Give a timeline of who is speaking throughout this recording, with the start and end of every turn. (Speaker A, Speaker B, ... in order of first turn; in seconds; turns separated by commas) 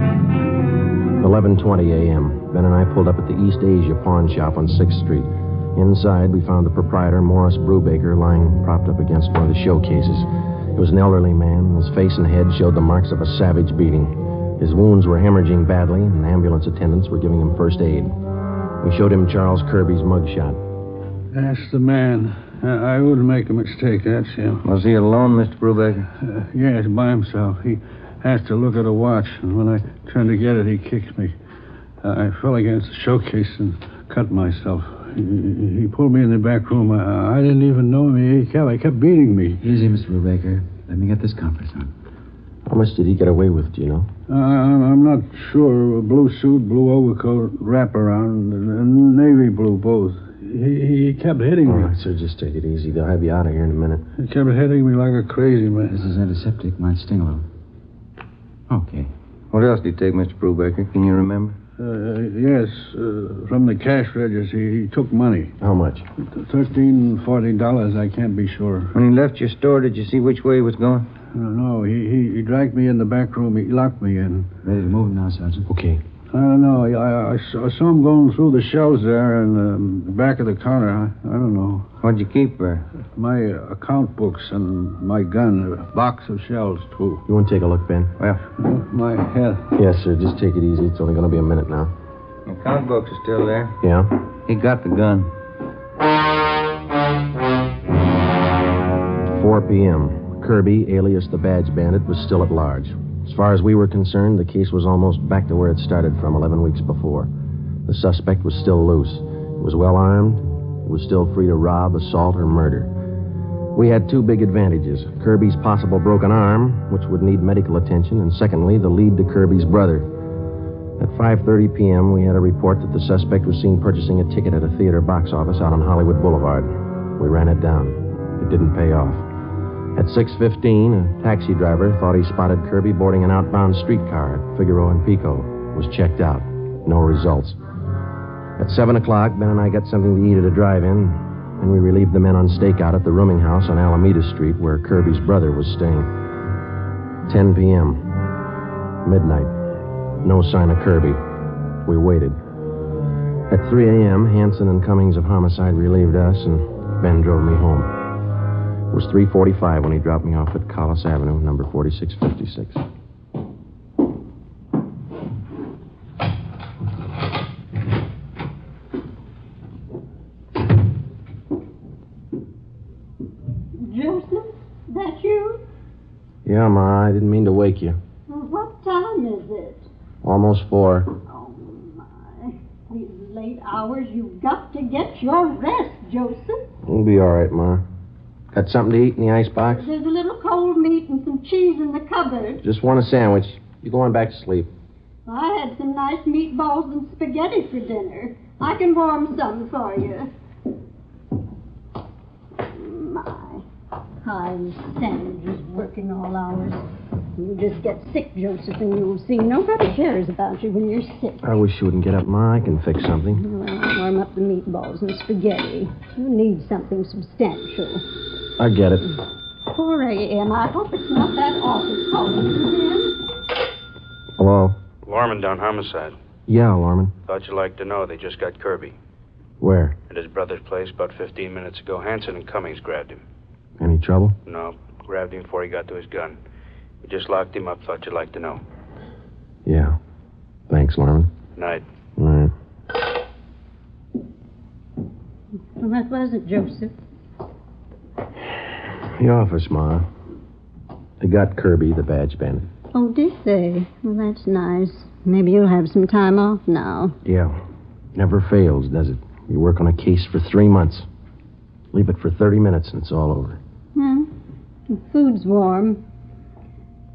Speaker A: 1.2-18.1, Speaker A: 18.8-20.6, Speaker B: 21.3-24.6, Speaker C: 24.6-26.1, Speaker B: 26.2-31.4, Speaker B: 32.0-39.6, Speaker D: 39.6-41.9, Speaker A: 42.7-44.1, Speaker B: 44.3-51.9, Speaker A: 51.6-54.0, Speaker B: 54.2-56.0, Speaker D: 55.9-57.5, Speaker D: 58.7-59.1, Speaker C: 59.5-61.6, Speaker B: 61.8-65.5, Speaker A: 65.6-66.1, Speaker B: 66.3-69.0, Speaker C: 68.9-71.1, Speaker B: 71.3-74.5, Speaker D: 74.6-75.7, Speaker A: 75.7-76.0, Speaker B: 76.3-81.9, Speaker C: 82.0-82.9, Speaker B: 83.1-87.2, Speaker A: 87.3-88.1, Speaker B: 88.6-89.7, Speaker A: 89.8-91.9, Speaker C: 92.5-93.8, Speaker A: 93.8-94.1, Speaker C: 94.5-95.3, Speaker A: 99.3-107.3, Speaker A: 107.9-112.9, Speaker A: 113.8-120.1, Speaker A: 121.0-129.2, Speaker A: 129.9-137.6, Speaker A: 138.6-146.1, Speaker A: 147.3-148.1, Speaker A: 149.0-149.5, Speaker A: 150.2-151.2, Speaker A: 151.9-152.4, Speaker A: 153.5-157.9, Speaker A: 158.9-162.8, Speaker E: 173.8-175.6, Speaker A: 176.4-178.0, Speaker E: 178.3-179.8, Speaker A: 180.2-181.1, Speaker E: 181.3-186.7, Speaker A: 186.9-187.8, Speaker A: 188.5-189.9, Speaker E: 189.7-192.6, Speaker A: 192.6-194.7, Speaker E: 195.3-200.3, Speaker E: 202.6-203.6, Speaker E: 204.2-206.8, Speaker E: 207.4-211.4, Speaker A: 211.4-213.4, Speaker E: 213.3-218.1, Speaker A: 218.6-219.1, Speaker E: 219.7-223.1, Speaker A: 224.4-224.8, Speaker F: 225.1-226.2, Speaker A: 226.5-227.1, Speaker F: 227.3-229.0, Speaker A: 229.6-230.0, Speaker F: 230.1-233.2, Speaker A: 233.8-234.4, Speaker F: 234.5-236.4, Speaker F: 237.0-238.6, Speaker A: 239.7-240.0, Speaker A: 240.7-241.3, Speaker F: 241.6-241.8, Speaker A: 242.2-242.5, Speaker E: 245.8-246.9, Speaker A: 249.2-250.1, Speaker A: 251.2-252.7, Speaker E: 252.9-257.2, Speaker A: 257.2-257.6, Speaker A: 258.1-261.1, Speaker A: 261.9-263.6, Speaker E: 263.9-264.3, Speaker E: 264.9-266.0